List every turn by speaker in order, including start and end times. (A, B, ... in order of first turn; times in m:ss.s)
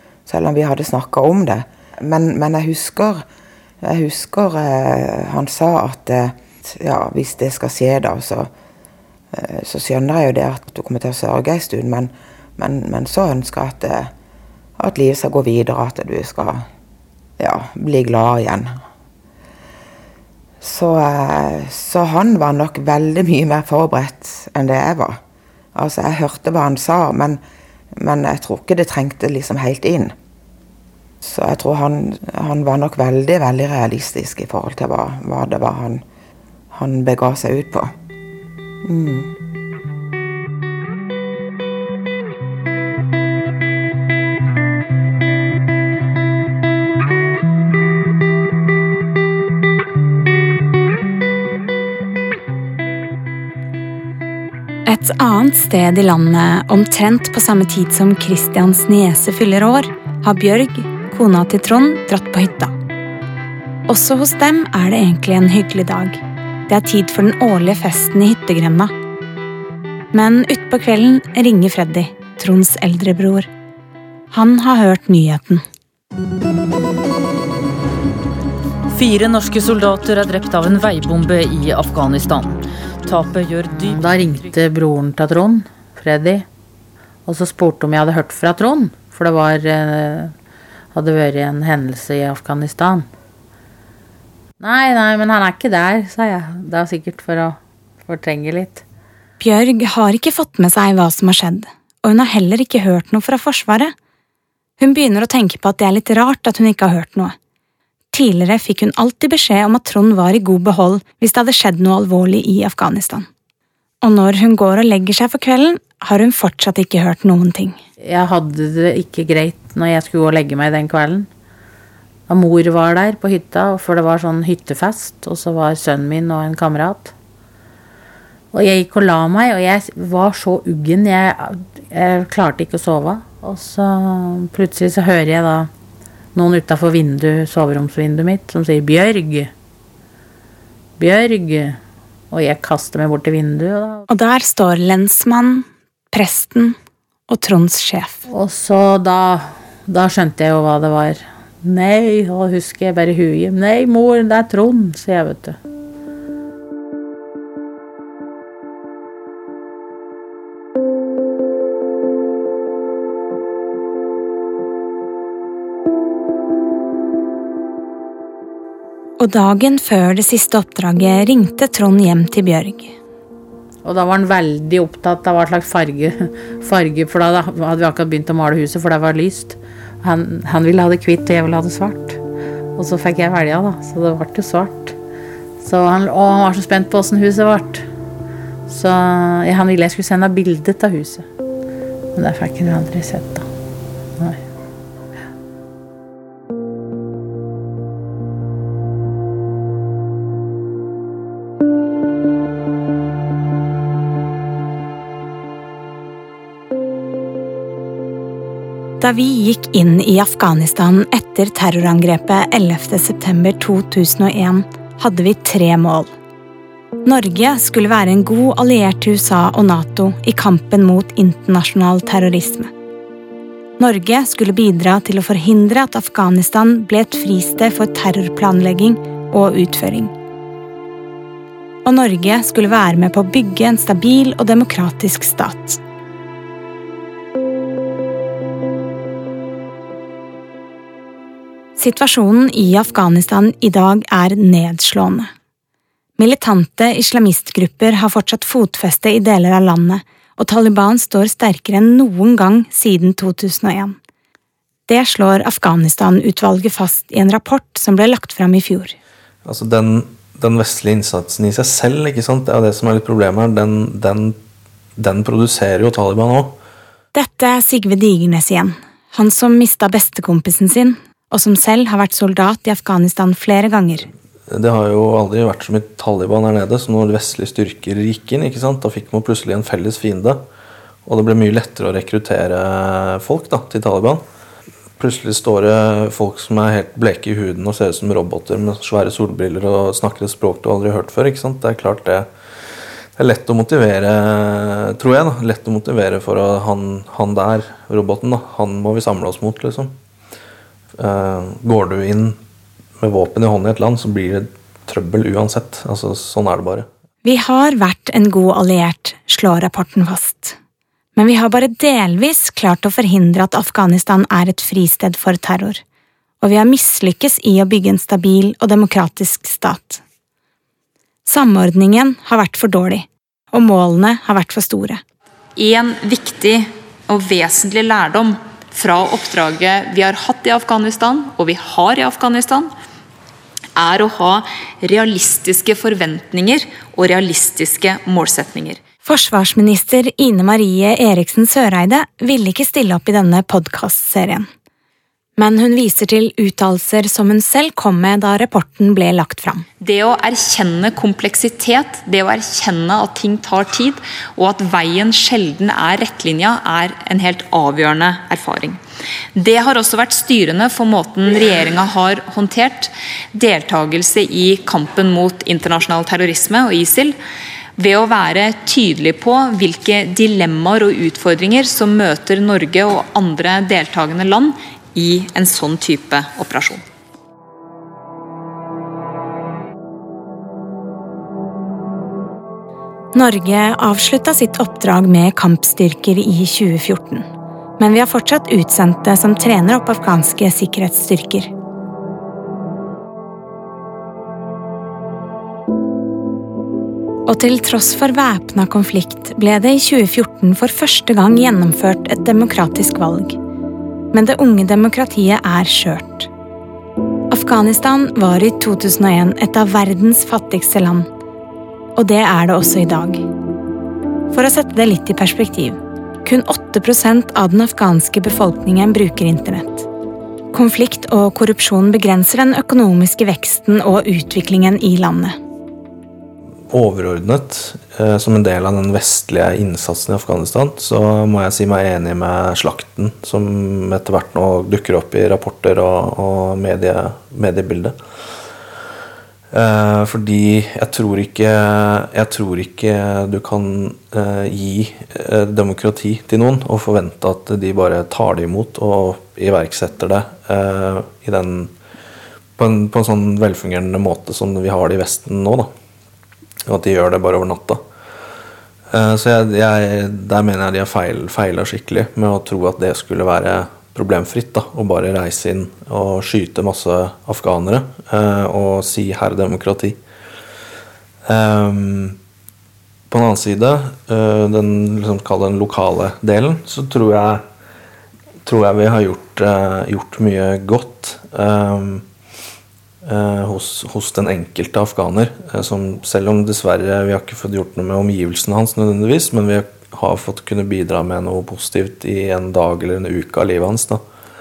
0:00.2-0:03.2 A
0:03.8-0:08.5 A
0:09.3-0:14.1 A
0:14.8-0:16.6 A
0:17.4-0:18.7 A
0:20.6-0:25.2 A
0:25.8-0:27.4 A
0:28.0-0:30.1 A
0:31.2-0:36.0 A
0:36.7-0:37.9 A
0:38.8-0:39.3 A
0:54.9-1:02.7 B
1:03.9-1:08.9 B
1:10.1-1:13.5 B
1:14.3-1:15.6 B
1:18.9-1:24.4 C
1:23.8-1:26.4 D
1:27.2-1:30.3 D
1:30.9-1:33.1 D
1:34.6-1:38.8 D
1:39.4-1:43.9 B
1:44.8-1:47.4 B
1:48.1-1:53.3 B
1:54.0-1:57.8 B
1:58.0-2:01.3 D
2:02.3-2:07.1 D
2:08.5-2:15.7 D
2:16.4-2:19.5 D
2:21.0-2:21.8 D
2:22.3-2:24.0 D
2:24.1-2:26.8 B
2:27.3-2:28.2 B
2:28.3-2:35.6 D
2:49.2-2:52.9 B
2:53.8-3:02.2 D
3:02.8-3:05.0 D
3:05.6-3:07.8 D
3:08.7-3:11.2 D
3:12.1-3:13.5 D
3:14.2-3:14.4 D
3:29.0-3:36.1 B
3:37.0-3:42.7 B
3:43.8-3:50.1 B
3:51.8-3:55.8 B
4:01.8-4:05.3 B
4:06.2-4:14.0 B
4:14.9-4:19.0 B
4:19.4-4:24.4 E
4:25.0-4:26.6 E
4:27.1-4:34.1 B
4:34.5-4:40.4 E
4:41.0-4:44.2 E
4:45.0-4:52.3 E
4:53.2-5:00.0 E
5:01.0-5:02.4 E
5:03.0-5:06.9 E
5:07.2-5:10.6 B
5:11.2-5:15.8 B
5:16.4-5:20.0 B
5:21.2-5:25.0 B
5:25.6-5:32.7 F
5:33.8-5:38.8 F
5:39.0-5:44.5 B
5:45.4-5:49.6 B
5:49.8-5:58.8 F
5:59.3-6:07.2 F
6:07.8-6:16.8 F
6:23.1-6:27.2 B
6:27.8-6:31.5 B
6:37.2-6:43.4 B
6:44.1-6:46.3 B
6:47.3-6:51.1 B
6:52.0-6:53.2 B
6:54.3-6:59.9 B
7:00.5-7:05.4 B
7:06.7-7:18.0 E
7:19.5-7:31.7 E
7:32.6-7:35.7 E
7:36.7-7:37.8 E
7:38.9-7:50.0 E
7:51.3-7:52.2 E
7:53.1-7:57.4 E
7:58.4-8:02.0 E
8:03.0-8:14.0 E